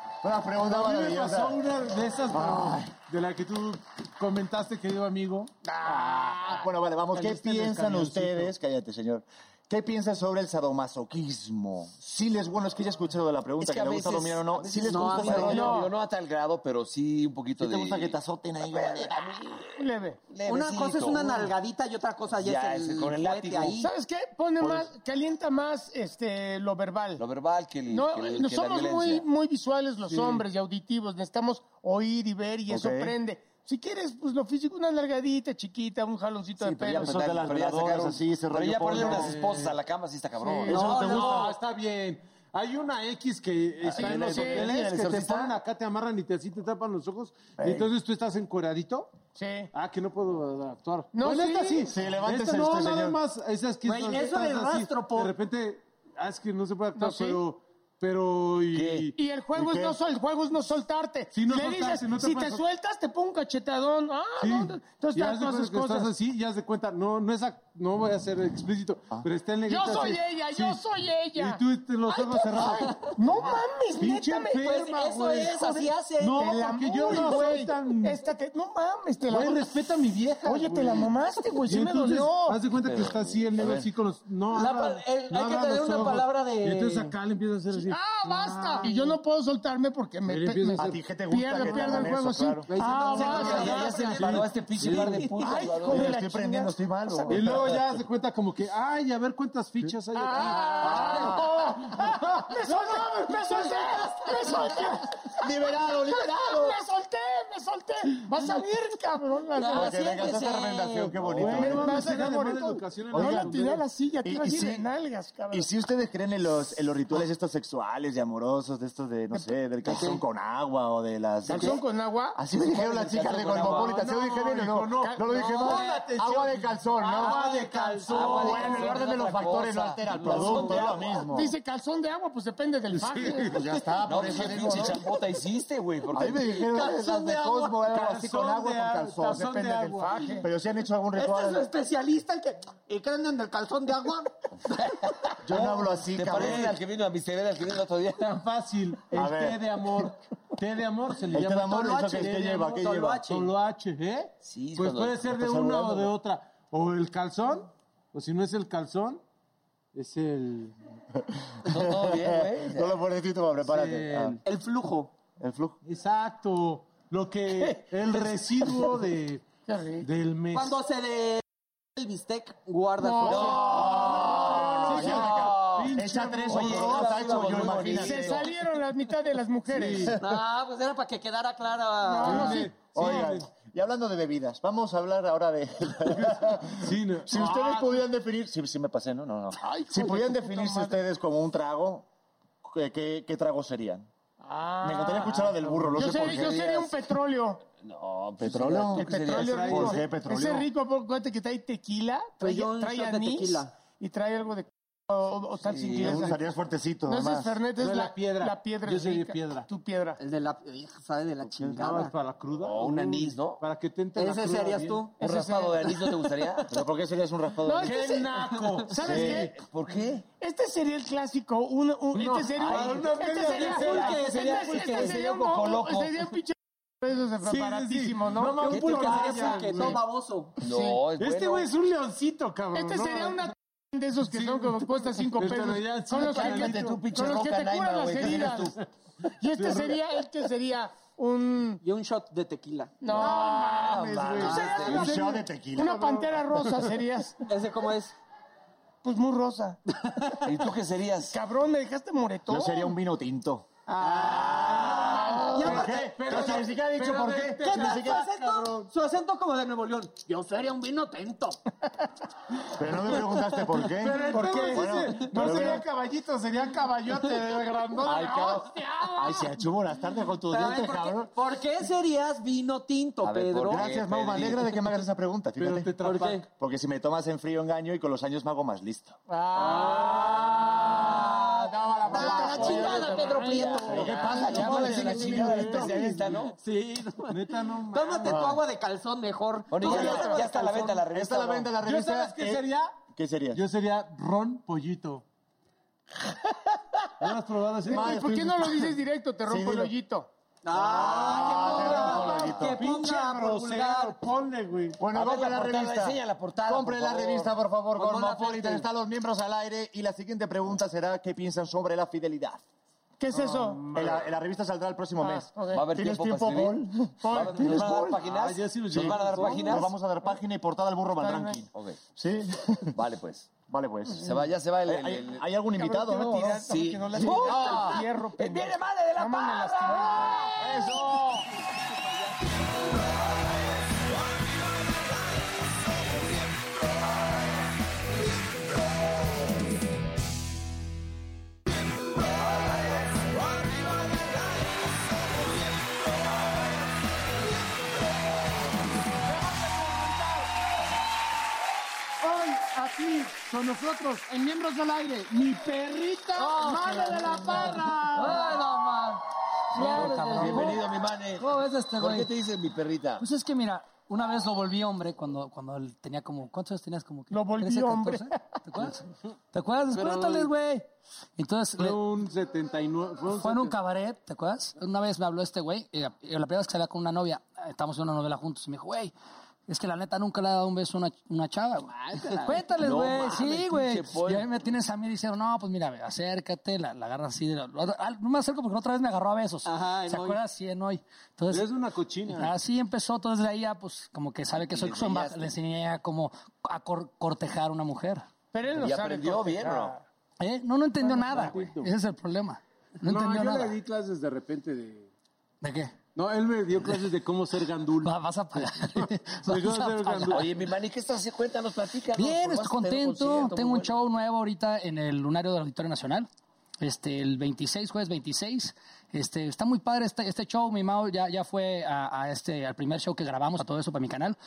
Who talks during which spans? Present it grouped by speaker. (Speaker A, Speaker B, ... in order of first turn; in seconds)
Speaker A: 0.2-1.6, 2.3-2.9, 5.8-15.6, 17.6-19.2, 24.6-24.9, 32.7-33.1, 36.9-39.3, 40.6-41.5, 51.9-53.2, 59.5-60.0, 90.8-92.7, 95.8-97.8, 101.1-101.4, 105.4-106.8, 109.7-112.1, 113.1-113.6, 114.2-114.9, 115.5-121.8, 122.3-127.4, 128.1-131.5, 133.5-135.0, 136.1-139.5, 140.4-141.7, 145.4-146.8, 149.1-149.7, 151.3-153.3, 155.3-156.1, 161.6-164.4, 165.4-165.8, 174.8-178.4, 182.3-192.1, 192.6-194.1, 194.8-196.7, 198.4-199.1, 199.7-200.7, 206.0-207.6, 216.7-218.1, 219.0-219.4, 243.2-246.2, 252.5-253.7, 255.6-258.3, 262.8-265.8, 268.0-268.6, 269.1-271.3, 273.6-279.2, 283.9-285.2, 288.2-288.6, 291.1-293.6, 297.9-299.9, 300.8-302.8, 305.0-312.6, 313.9-318.0, 318.9-322.9, 323.6-327.8
Speaker B: 0.6-5.6, 7.1-8.5, 30.0-30.4, 38.9-39.8, 40.7-49.1, 49.7-59.1, 61.3-62.6, 64.4-70.8, 71.3-73.1, 74.0-78.2, 79.3-89.2, 90.2-91.0, 91.6-92.1, 92.7-95.3, 97.3-101.3, 102.0-104.0, 111.2-113.8, 122.7-129.0, 130.2-130.7, 132.9-133.6, 137.9-140.4, 148.2-152.7, 153.2-159.2, 159.9-160.7, 163.6-164.4, 165.8-169.4, 170.0-170.8, 173.9-177.5, 179.7-180.2, 182.3-183.5, 186.1-188.1, 195.7-196.1, 199.4-200.0, 207.8-209.7, 211.6-215.1, 217.8-219.5, 222.1-224.2, 227.4-230.0, 231.2-233.5, 234.2-237.0, 239.5-240.0, 244.3-246.2, 253.9-258.8, 264.0-268.3, 275.6-276.4, 285.5-285.9, 287.3-288.5, 291.8-293.0, 293.5-295.2, 297.2-298.2, 301.8-305.0, 313.4-314.3, 318.2-319.9, 352.2-358.6, 369.9-370.5, 371.8-373.7, 391.5-392.5, 401.0-401.9, 403.0-405.1, 406.1-410.5
Speaker C: 13.6-21.5, 22.4-23.8, 27.2-29.2, 36.6-41.5, 43.8-45.5, 58.7-59.1, 82.7-83.9, 93.2-96.2, 100.8-101.2, 111.3-111.6, 122.7-124.0, 128.1-131.2, 134.0-136.6, 145.5-148.3, 154.4-155.6, 161.6-163.0, 173.3-175.9, 176.4-178.5, 195.9-196.9, 197.8-199.9, 205.6-206.3, 212.5-213.6, 215.2-216.8, 219.0-220.2, 222.7-226.2, 228.7-229.9, 230.6-231.7, 236.2-238.8, 243.1-245.2, 250.4-251.3, 254.2-255.1, 273.2-274.8, 282.1-286.6, 289.7-291.7, 300.8-302.8, 305.0-307.6, 315.7-319.9, 321.7-322.0, 322.9-323.6, 324.1-325.6, 326.3-330.9, 332.6-337.3, 342.5-346.4, 359.9-363.2, 382.8-384.5, 394.5-395.5, 398.8-399.9, 410.2-413.9
Speaker D: 14.8-15.7, 20.4-23.9, 40.7-41.4, 53.8-55.3, 74.6-76.4, 84.5-87.1, 92.7-95.6, 109.6-111.5, 119.8-120.2, 121.5-121.8, 125.4-126.0, 127.1-129.3, 130.2-130.9, 136.5-138.0, 141.1-144.3, 151.8-153.5, 164.4-165.1, 170.5-171.4, 171.9-173.9, 177.4-178.1, 180.2-182.7, 202.4-203.7, 210.2-212.1, 214.2-215.2, 222.6-225.2, 228.7-230.6, 241.8-243.1, 244.4-245.0, 247.4-248.1, 254.0-256.6, 257.6-261.6, 270.5-273.9, 276.1-276.4, 279.6-285.8, 286.4-287.4, 287.9-291.0, 300.6-304.2, 307.9-308.9, 382.1-382.6, 389.6-390.4
Speaker E: 15.4-15.9, 19.8-20.2, 23.7-27.2, 27.9-37.1, 40.6-41.0, 44.0-44.8, 49.4-49.7, 51.1-51.9, 56.9-57.4, 59.1-66.1, 69.7-74.8, 76.3-79.7, 80.4-82.6, 87.7-94.0, 95.4-97.4, 100.1-110.2, 111.4-115.7, 121.5-122.4, 125.0-125.2, 131.3-133.6, 139.2-140.5, 169.7-170.1, 173.0-175.3, 177.9-180.1, 182.0-183.2, 189.6-190.9, 194.4-197.6, 198.9-206.3, 207.1-210.2, 215.2-216.1, 217.6-219.6, 220.4-229.3, 230.6-231.0, 232.7-238.7, 239.4-241.8, 243.0-247.4, 249.0-249.8, 251.3-252.9, 254.9-255.9, 264.0-265.8, 268.0-269.4, 279.3-285.9, 289.8-290.4, 297.9-300.3, 313.2-313.9, 315.2-315.9, 317.2-318.2, 321.2-321.6, 325.7-331.4, 349.3-350.5, 356.7-357.9, 359.7-360.7, 367.3-368.6, 398.5-400.0
Speaker F: 356.3-359.2, 359.7-362.3, 363.2-372.0, 373.4-379.1, 379.7-391.7, 392.3-398.2, 400.4-403.7, 405.6-406.0, 408.0-410.5, 412.1-416.3, 416.8-424.4